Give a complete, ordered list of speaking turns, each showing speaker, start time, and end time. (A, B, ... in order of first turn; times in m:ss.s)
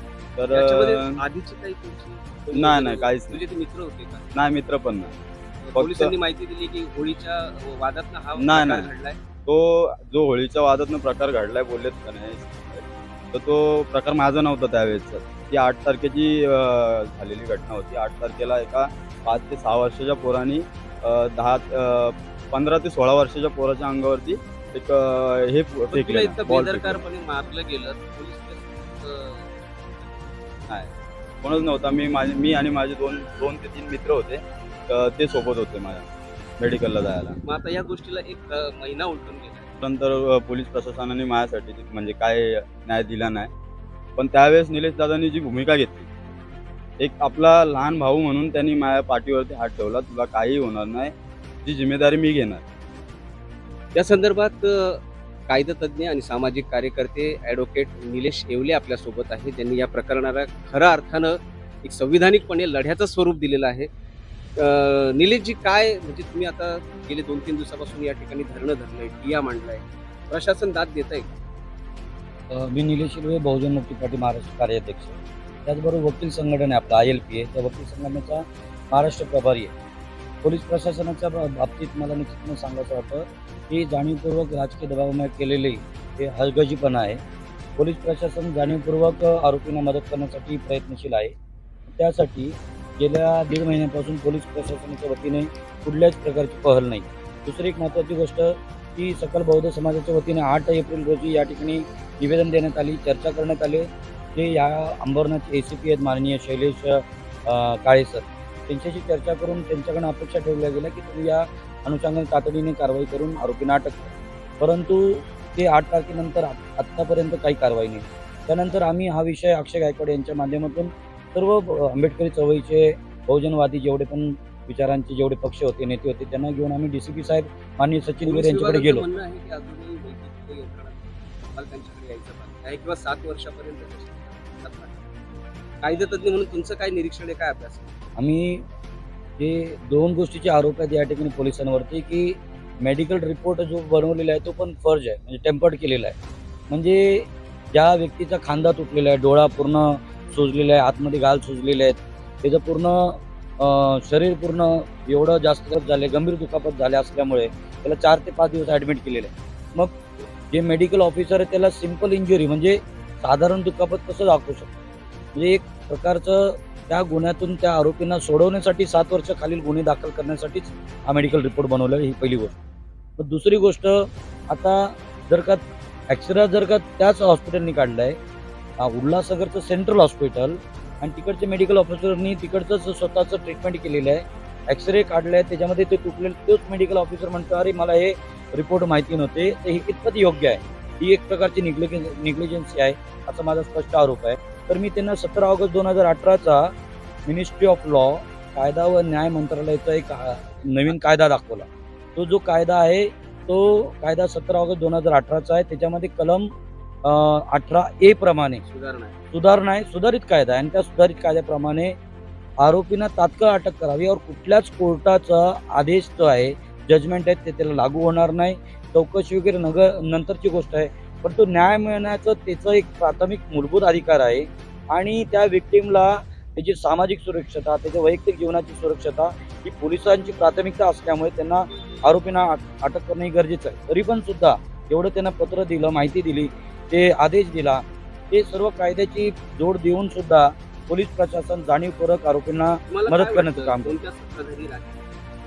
0:00.4-0:01.2 A
0:00.5-0:04.3 B
0:02.5-0:03.4 A
0:04.3-0:05.2 A
0:05.6-0:09.2 B
0:05.8-0:06.1 A
0:08.4-0:08.9 A
0:09.5-0:27.0 A
0:25.9-0:30.2 B
0:31.4-0:37.4 A
0:37.5-0:39.7 B
0:39.8-0:43.5 A
0:44.2-0:46.1 A
0:47.0-0:52.6 A
0:54.0-1:03.9 B
1:04.6-1:11.3 B
1:12.5-1:19.7 C
1:20.4-1:27.2 C
1:27.8-1:31.3 C
1:32.0-2:09.0 C
2:08.2-2:11.0 B
2:11.6-2:15.0 B
2:15.8-2:17.9 B
2:18.2-2:18.6 C
2:19.4-2:26.2 C
2:26.7-2:44.7 C
2:45.3-2:52.6 C
2:53.2-2:58.2 C
2:58.8-3:16.7 C
3:17.3-3:26.5 C
3:27.1-3:28.6 C
3:28.6-3:29.2 B
3:29.3-3:32.0 C
3:32.6-4:04.0 C
4:02.9-4:05.1 B